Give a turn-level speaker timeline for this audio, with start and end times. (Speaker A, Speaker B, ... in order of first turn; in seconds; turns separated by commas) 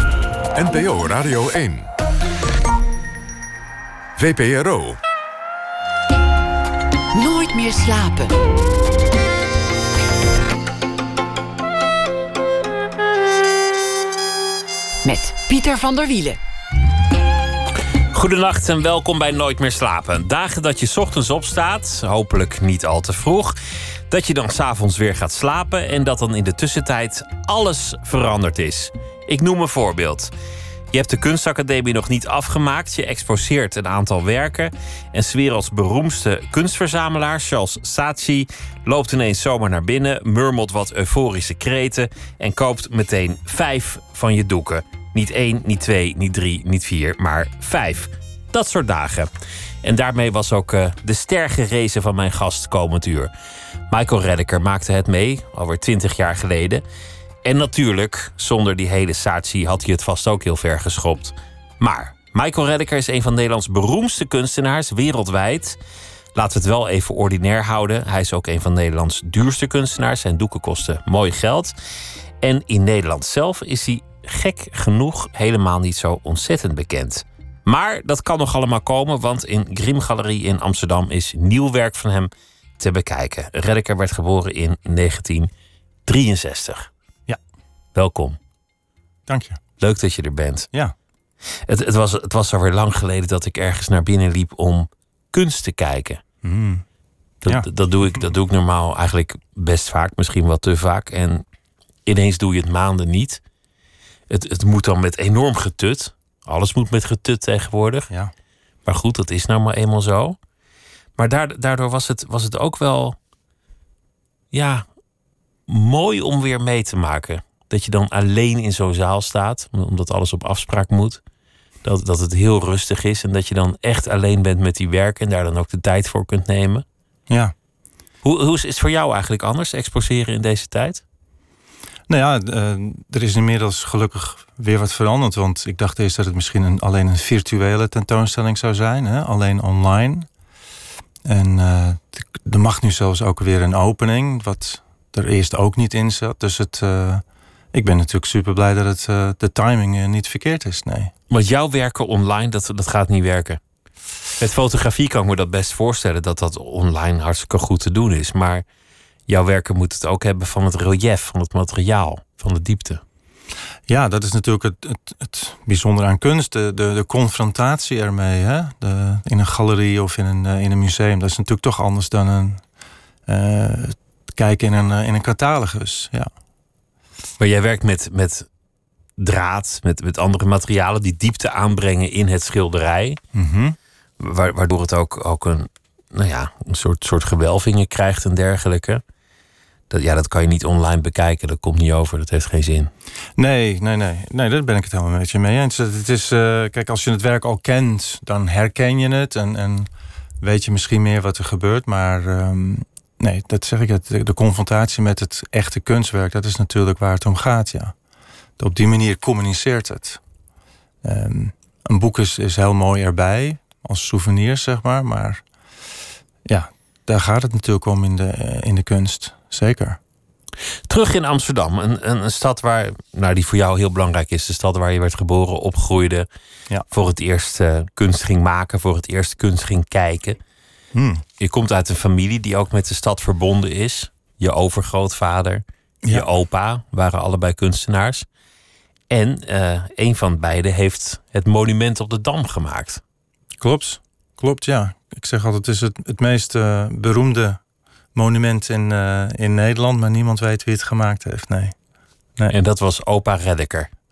Speaker A: 0.6-1.9, Speaker A: 4.2-5.0, Speaker B: 7.1-8.3, Speaker B: 15.0-16.4, Speaker C: 18.1-23.6, Speaker C: 24.1-30.3, Speaker C: 30.9-49.3, Speaker C: 49.8-53.3, Speaker C: 53.9-56.9, Speaker C: 57.4-65.8, Speaker C: 66.3-71.8, Speaker C: 72.4-85.5, Speaker C: 86.1-86.9, Speaker C: 87.9-88.4, Speaker D: 89.3-89.6, Speaker C: 89.8-90.7, Speaker C: 91.7-96.2, Speaker D: 96.4-96.8, Speaker C: 97.4-101.5, Speaker C: 102.1-103.4, Speaker C: 104.3-108.1, Speaker C: 108.8-110.4, Speaker C: 111.2-113.2, Speaker C: 114.5-114.9, Speaker C: 115.7-121.2, Speaker C: 121.8-126.8, Speaker C: 128.2-131.0, Speaker D: 132.1-140.3, Speaker D: 141.2-151.1, Speaker C: 151.3-153.6, Speaker C: 154.4-158.7, Speaker C: 159.3-163.0, Speaker D: 163.9-172.6, Speaker D: 173.3-176.3, Speaker C: 177.4-178.5, Speaker C: 179.2-183.2, Speaker D: 183.3-183.8, Speaker C: 184.2-189.0, Speaker C: 189.9-192.9, Speaker D: 193.4-199.9, Speaker D: 200.4-207.9, Speaker D: 208.6-210.2, Speaker D: 211.0-215.4, Speaker D: 216.5-220.0, Speaker C: 220.9-226.3, Speaker C: 226.9-230.4, Speaker D: 230.9-231.2, Speaker C: 231.4-238.3, Speaker C: 239.1-243.0, Speaker D: 243.6-247.6, Speaker D: 248.2-251.8, Speaker C: 252.5-253.9